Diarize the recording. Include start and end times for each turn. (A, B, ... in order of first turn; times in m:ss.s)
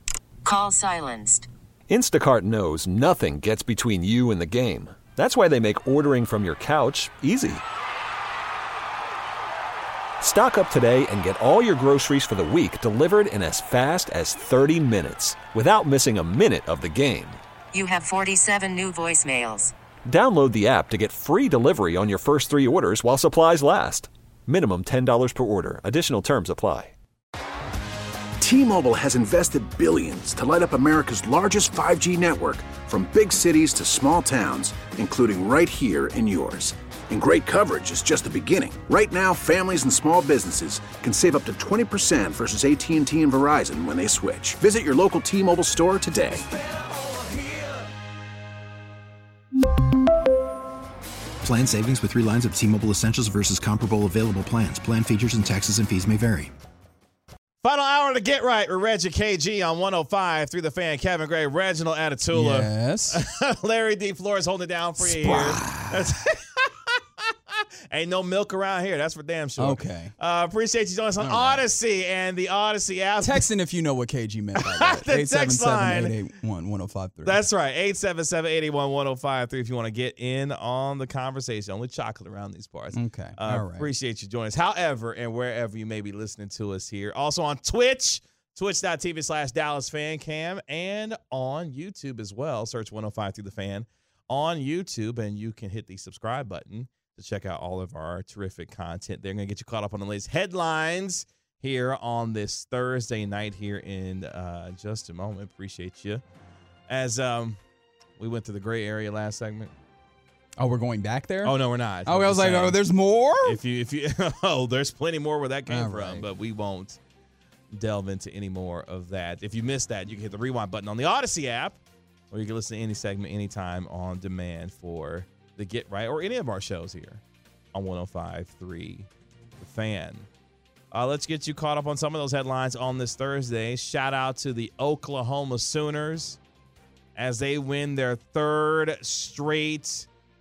0:00.4-0:01.5 A
0:01.9-0:07.6 B
0:10.2-0:17.4 B
0:17.7-0:19.7 A
0:20.1-0:26.9 B
0:28.4-0:46.4 C
0:51.4-0:56.5 D
0:57.6-1:07.0 E
1:02.3-1:03.2 F
1:05.0-1:06.2 F
1:07.9-1:13.5 E
1:09.6-1:10.1 F
1:11.2-1:11.6 F
1:13.2-1:17.4 F
1:14.6-1:16.2 E
1:17.2-1:46.2 E
1:22.9-1:23.9 F
1:46.9-1:47.6 E
1:48.2-1:49.7 E
1:50.6-1:53.6 F
1:51.4-1:52.8 E
1:53.4-1:57.0 E
1:55.7-1:56.3 F
1:57.7-2:01.8 E
2:02.3-2:07.2 E
2:07.7-2:09.1 E
2:09.6-2:10.3 E
2:10.9-2:16.4 E
2:17.2-2:20.1 E